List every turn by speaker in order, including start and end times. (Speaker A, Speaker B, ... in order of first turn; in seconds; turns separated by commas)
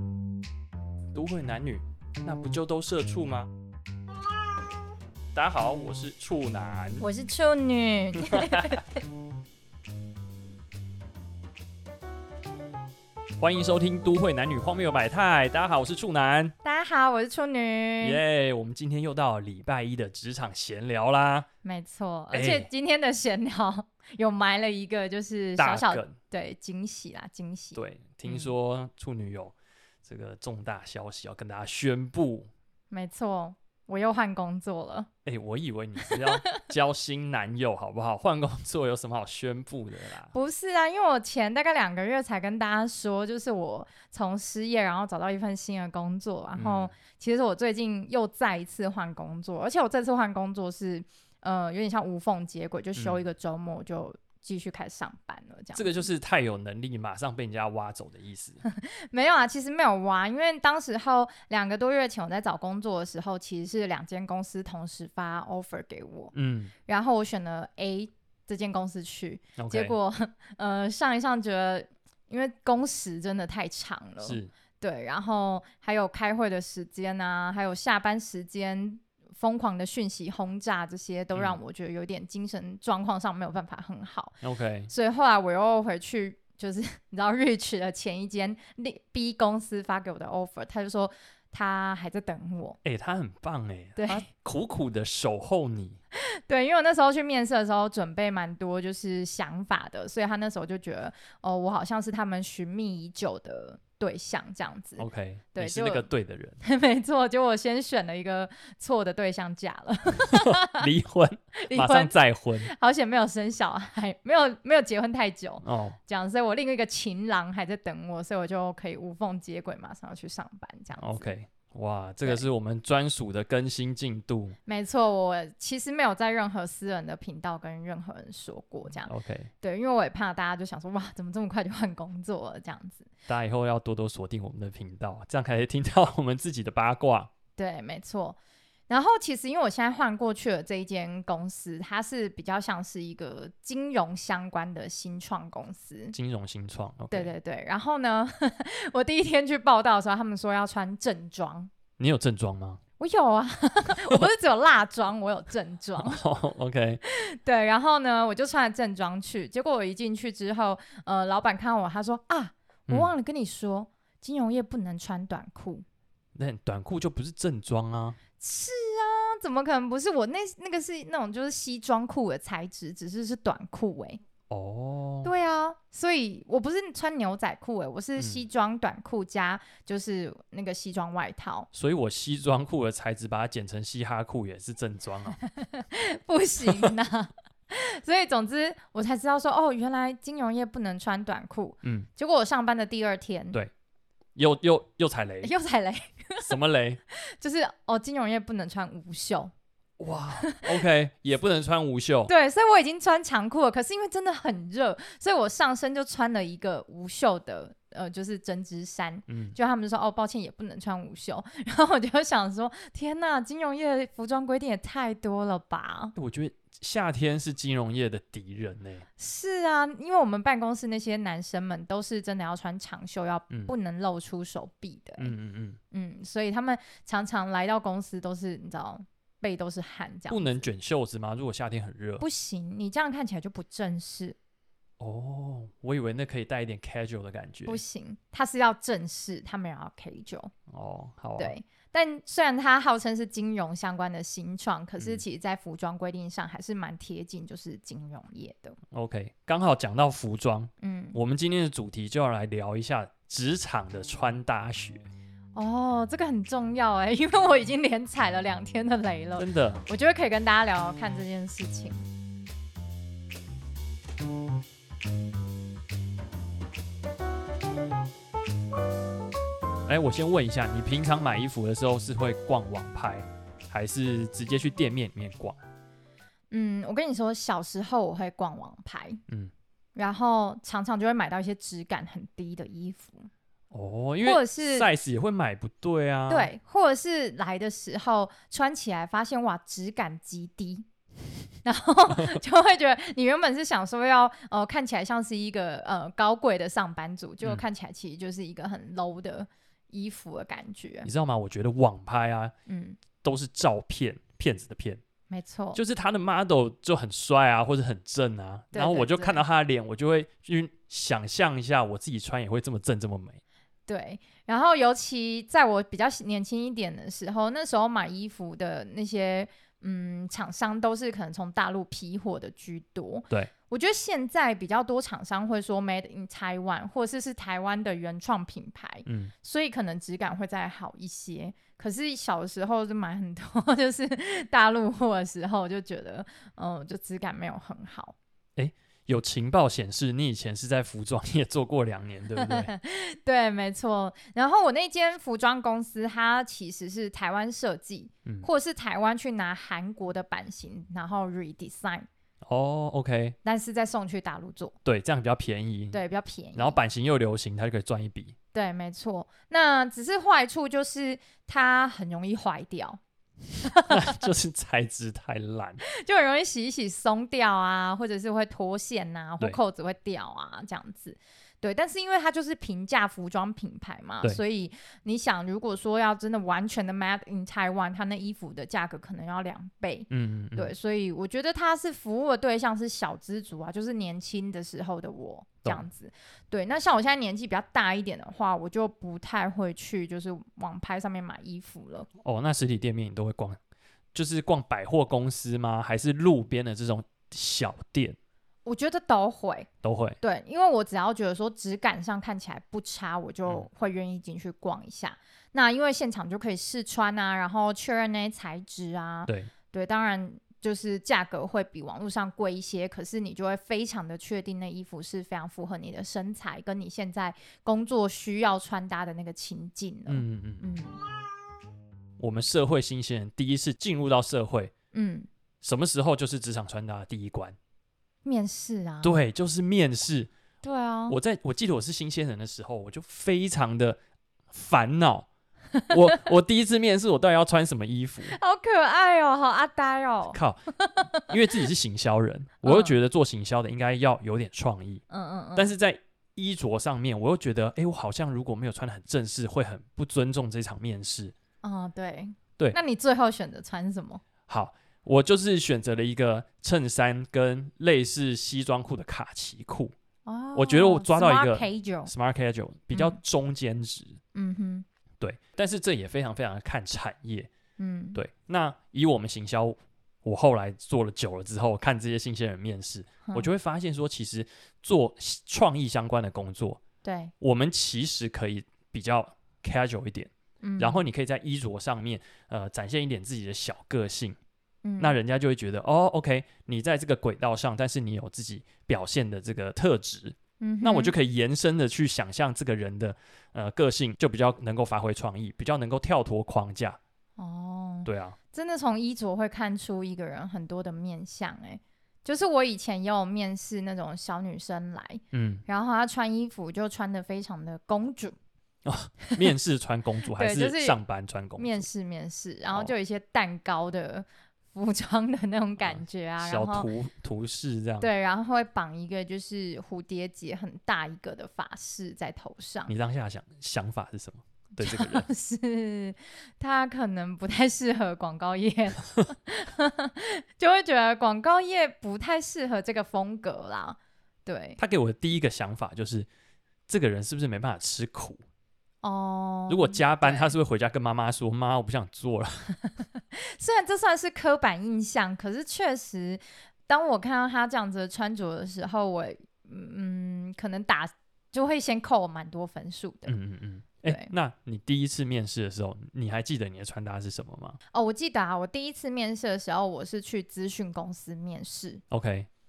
Speaker A: 1.1-3.5, Speaker A: 5.3-7.0, Speaker B: 7.0-8.9, Speaker A: 8.2-8.8, Speaker A: 13.4-16.6, Speaker B: 16.6-18.2, Speaker A: 18.0-21.5, Speaker B: 21.6-28.5, Speaker A: 22.3-22.7, Speaker A: 25.6-26.2, Speaker A: 27.8-32.5, Speaker B: 32.9-35.1, Speaker A: 35.3-40.3, Speaker B: 36.0-36.6, Speaker B: 40.3-56.1, Speaker A: 46.6-46.9, Speaker A: 53.0-53.2, Speaker A: 55.8-58.6, Speaker B: 58.6-66.3, Speaker A: 66.3-66.7, Speaker B: 66.9-84.4, Speaker A: 69.6-70.0, Speaker A: 74.2-74.5, Speaker A: 84.4-84.9, Speaker B: 84.9-92.8, Speaker A: 92.8-96.0, Speaker B: 94.0-94.2, Speaker B: 96.5-106.1, Speaker A: 105.0-106.6, Speaker B: 106.6-110.9, Speaker A: 110.2-112.7, Speaker B: 111.6-121.3, Speaker A: 115.6-116.0, Speaker A: 121.0-124.6, Speaker B: 124.7-133.1, Speaker A: 129.1-129.5, Speaker A: 133.3-137.3, Speaker B: 137.6-138.4, Speaker B: 138.9-146.2, Speaker A: 146.1-147.3, Speaker B: 147.1-151.7, Speaker A: 152.0-152.8, Speaker B: 153.0-156.2, Speaker A: 156.0-157.0, Speaker B: 157.1-165.8, Speaker A: 166.3-168.2, Speaker B: 168.4-174.2, Speaker A: 174.5-175.3, Speaker B: 175.2-181.7, Speaker A: 178.2-178.4, Speaker A: 181.7-185.4, Speaker B: 185.5-193.6, Speaker A: 191.8-192.1, Speaker A: 194.4-195.5, Speaker B: 195.4-196.6, Speaker A: 196.4-197.0, Speaker B: 197.1-199.5, Speaker A: 200.0-202.3, Speaker B: 202.3-216.1, Speaker A: 209.3-209.6, Speaker A: 216.2-219.1, Speaker B: 219.2-225.3, Speaker A: 225.2-225.8, Speaker B: 225.9-230.7, Speaker A: 230.3-232.2, Speaker B: 232.2-234.4, Speaker A: 235.0-237.8, Speaker B: 237.7-240.5, Speaker A: 240.7-241.5, Speaker B: 241.4-248.8, Speaker A: 248.9-255.0, Speaker B: 250.8-251.2, Speaker B: 255.6-262.0, Speaker A: 259.4-259.8, Speaker A: 269.9-275.6, Speaker B: 276.5-279.2, Speaker B: 280.0-283.3, Speaker A: 283.7-286.5, Speaker B: 284.2-284.9, Speaker B: 286.3-290.9, Speaker B: 291.6-301.1, Speaker A: 301.1-302.5, Speaker B: 302.7-303.0, Speaker A: 303.2-305.0, Speaker B: 305.3-305.8, Speaker A: 305.7-313.4, Speaker B: 308.7-309.4, Speaker B: 313.9-338.2, Speaker A: 329.1-329.3, Speaker A: 338.6-342.7, Speaker B: 342.4-352.1, Speaker A: 352.4-353.4, Speaker B: 353.4-354.8, Speaker A: 354.9-356.0, Speaker B: 355.9-356.8, Speaker A: 356.6-358.4, Speaker B: 358.5-363.0, Speaker B: 363.6-364.2, Speaker A: 363.9-365.8, Speaker B: 365.9-392.1, Speaker A: 380.1-380.7, Speaker A: 392.2-393.6, Speaker A: 394.1-398.2, Speaker B: 398.6-399.7, Speaker A: 399.8-400.2, Speaker B: 400.2-421.0, Speaker A: 420.1-420.6, Speaker A: 422.2-424.7, Speaker B: 424.9-425.3, Speaker A: 425.6-427.6, Speaker B: 428.2-429.2, Speaker A: 429.0-430.3, Speaker B: 430.6-431.2, Speaker A: 431.1-434.0, Speaker A: 434.5-435.3, Speaker B: 435.8-436.2, Speaker A: 435.9-438.4, Speaker B: 438.2-441.7, Speaker A: 440.3-440.6, Speaker A: 441.2-445.0, Speaker B: 442.6-443.0, Speaker B: 445.1-445.7, Speaker A: 445.6-451.3, Speaker B: 451.6-454.2, Speaker A: 454.5-459.9, Speaker B: 460.3-462.1, Speaker A: 460.6-464.2, Speaker B: 462.9-463.2, Speaker B: 464.3-464.9, Speaker A: 465.2-467.5, Speaker B: 467.8-468.2, Speaker A: 468.1-476.8, Speaker B: 477.0-477.3, Speaker A: 477.4-484.4, Speaker B: 480.6-481.1, Speaker B: 484.9-485.2, Speaker A: 485.0-497.0, Speaker B: 490.6-491.1, Speaker B: 497.4-508.4, Speaker A: 498.1-498.4, Speaker A: 505.3-505.6, Speaker A: 508.9-511.9, Speaker B: 510.4-511.0, Speaker B: 511.6-516.9, Speaker A: 515.8-518.1, Speaker B: 518.0-522.9, Speaker A: 522.9-525.3, Speaker B: 524.8-534.8, Speaker A: 534.8-536.3, Speaker A: 536.9-538.4, Speaker B: 539.0-540.6, Speaker A: 539.7-542.7, Speaker B: 543.0-553.4, Speaker A: 553.3-557.8, Speaker B: 554.1-554.3, Speaker B: 557.9-562.0, Speaker A: 562.1-562.5